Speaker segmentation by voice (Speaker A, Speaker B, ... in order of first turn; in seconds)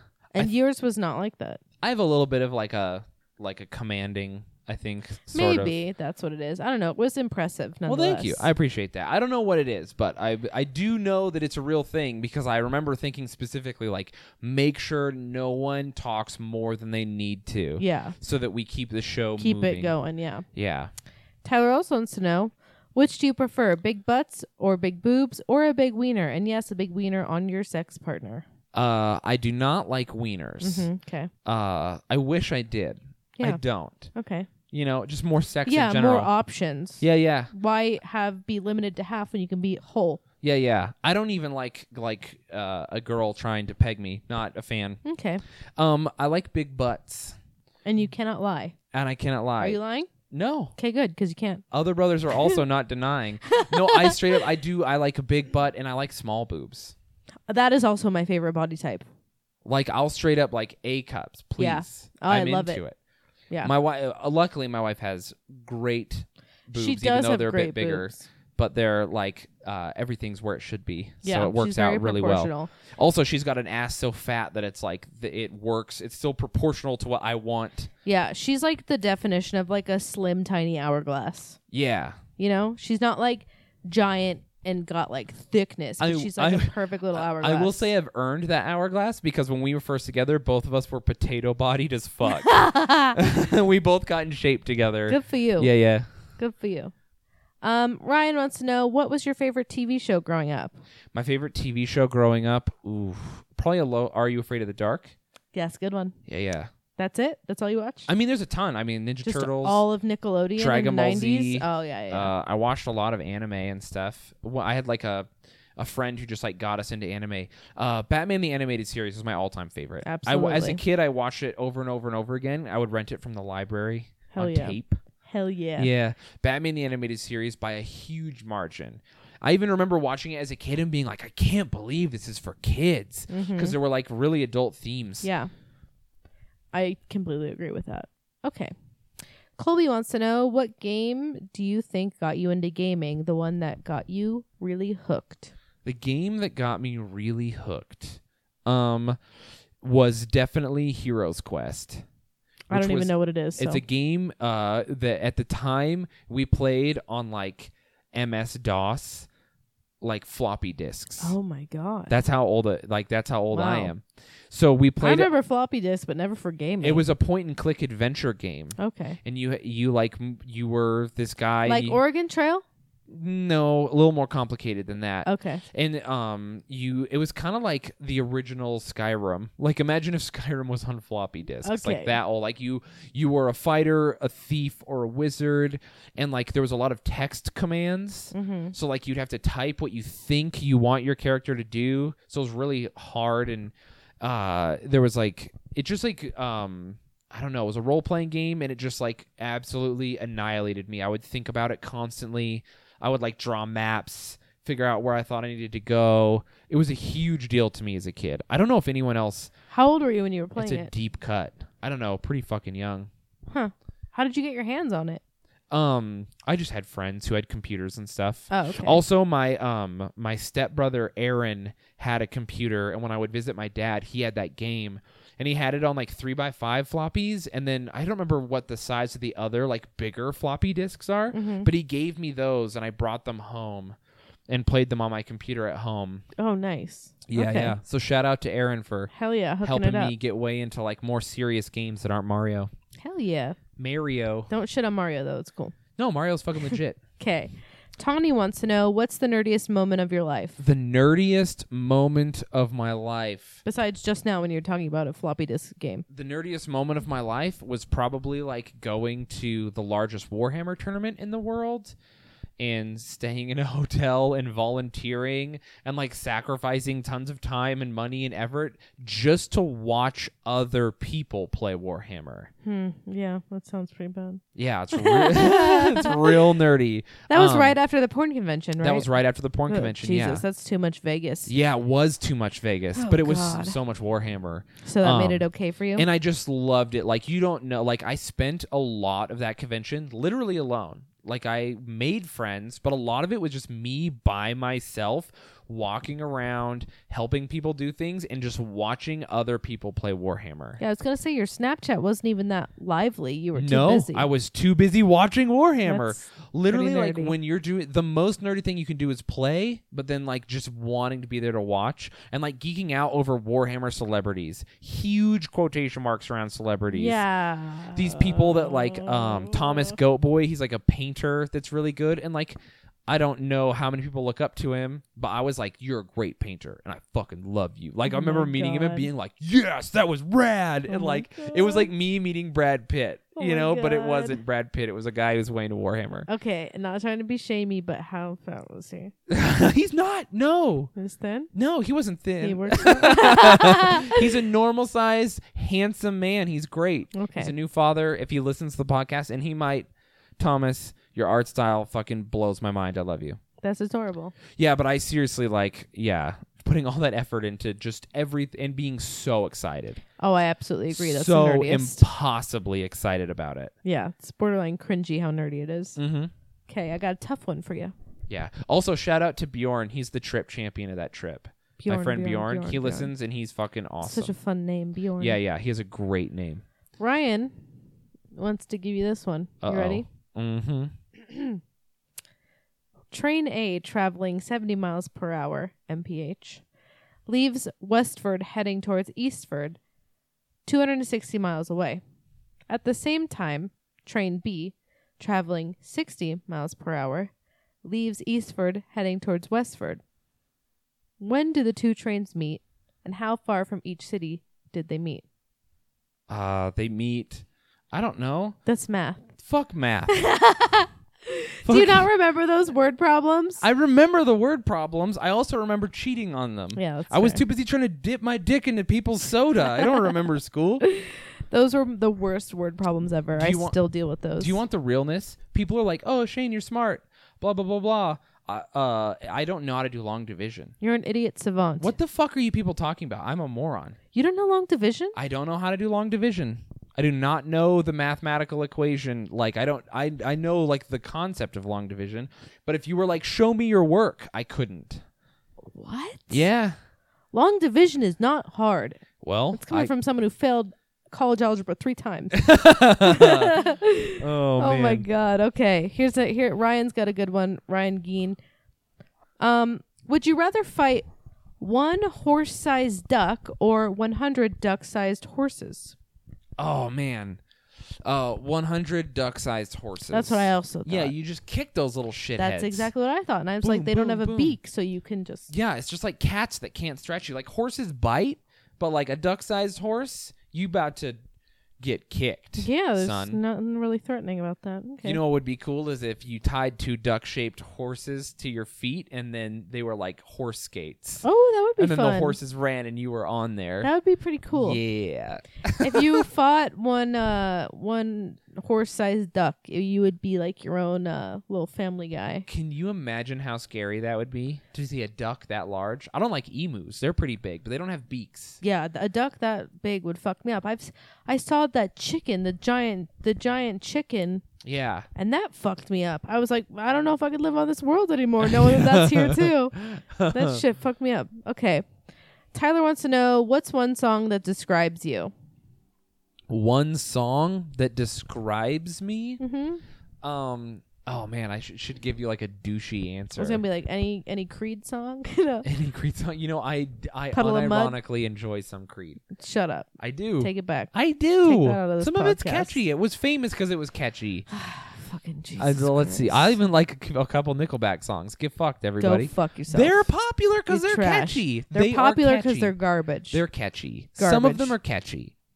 Speaker A: 0.3-1.6, 5.3-8.5, 17.8-18.1, 19.4-20.4, 21.4-28.4, 30.6-31.3, 34.1-34.5, 35.6-40.2, 45.0-45.4, 47.9-48.7, 49.6-50.1, 50.8-51.6, 53.5-54.4, 57.5-59.0, 61.6-62.8, 66.7-68.2, 71.2-72.7, 78.0-81.6, 82.4-87.9, 92.3-93.2, 95.1-95.7, 96.4-96.9, 97.6-100.8, 105.5-106.1, 107.0-108.1, 109.2-112.3, 120.0-120.8, 124.3-125.9, 133.3-133.8, 135.2-135.5, 136.7-138.7, 139.6-145.5, 152.7-153.8, 161.2-162.2, 163.5-163.9, 165.0-167.1, 168.8-169.2, 171.6-172.6, 175.2-175.6, 181.6-182.2, 188.3-188.7, 209.7-210.9, 213.5-215.2, 218.5-219.0, 231.3-231.7, 236.4-237.7, 239.1-240.1, 243.0-243.6, 244.5-245.7, 246.6-250.6, 253.6-256.0, 272.6-274.4, 274.9-276.4, 277.3-279.1, 279.7-281.5, 282.9-283.8, 284.8-286.1, 300.8-304.3, 305.8-307.3, 316.9-320.0, 328.0-329.1, 330.9-331.9, 333.4-334.4, 336.3-339.1, 340.9-341.5, 342.4-344.3, 347.1-347.5, 353.6-354.3, 360.2-362.0, 363.8-366.0, 366.7-367.9, 371.8-373.1, 374.0-375.4, 377.0-377.6, 378.3-380.1, 381.2-381.6, 383.1-386.6, 387.3-389.8, 390.6-392.0, 392.7-397.3, 397.8-400.0, 401.2-405.2, 408.6-409.3, 410.1-413.6, 416.7-417.4, 419.6-420.1, 420.8-424.6, 430.8-431.9, 434.1-435.1, 445.6-446.4, 447.3-452.4, 453.0-458.4, 459.4-461.0, 461.6-465.9, 470.1-471.1, 472.4-475.5, 482.6-485.2, 491.2-492.4, 493.8-494.8, 495.8-502.5, 508.6-514.4, 515.1-519.8, 520.3-521.8, 522.5-525.3, 529.4-529.8, 533.4-535.7, 537.3-538.0, 539.3-539.9, 540.4-540.9, 541.4-542.8, 544.5-546.5, 549.0-550.1, 550.7-553.4, 554.2-554.8
Speaker B: 1.8-5.8, 7.9-19.9, 20.5-20.9, 28.7-30.9, 31.4-34.1, 34.7-36.3, 37.0-37.5, 40.4-45.0, 45.8-47.4, 48.9-49.8, 50.3-50.7, 51.7-56.9, 59.6-62.9, 63.6-77.9, 81.7-82.2, 86.0-92.6, 93.1-96.1, 101.1-105.1, 106.3-106.7, 108.1-109.8, 110.6-125.0, 125.8-135.3, 145.8-149.2, 149.8-152.0, 152.7-159.3, 160.0-161.3, 162.1-165.3, 166.8-172.0, 173.1-209.5, 210.6-213.1, 215.7-233.9, 234.5-236.2, 237.3-242.7, 243.8-244.5, 246.0-247.0, 250.6-253.6, 256.1-261.9, 262.6-272.5, 274.5-277.8, 278.8-280.4, 281.5-285.4, 285.9-300.8, 303.5-317.2, 317.9-336.3, 339.3-340.9, 341.5-349.9, 350.4-353.4, 354.5-360.0, 360.9-363.7, 366.0-366.3, 368.3-374.3, 375.2-376.6, 379.6-380.9, 406.3-408.6, 409.4-410.1, 411.6-412.1, 413.6-420.8, 423.4-423.8, 424.4-430.7, 431.8-434.0, 435.1-445.0, 446.3-446.8, 449.2-449.9, 452.3-453.6, 454.2-455.1, 466.6-467.4, 468.0-472.9, 473.6-474.6, 475.5-481.2, 481.8-483.4, 485.0-491.2, 491.8-493.9, 494.5-496.2, 502.5-508.6, 514.6-515.1, 518.4-520.6, 526.5-529.4, 530.2-533.6, 535.6-539.2, 540.0-544.5, 545.6-552.7, 553.3-555.3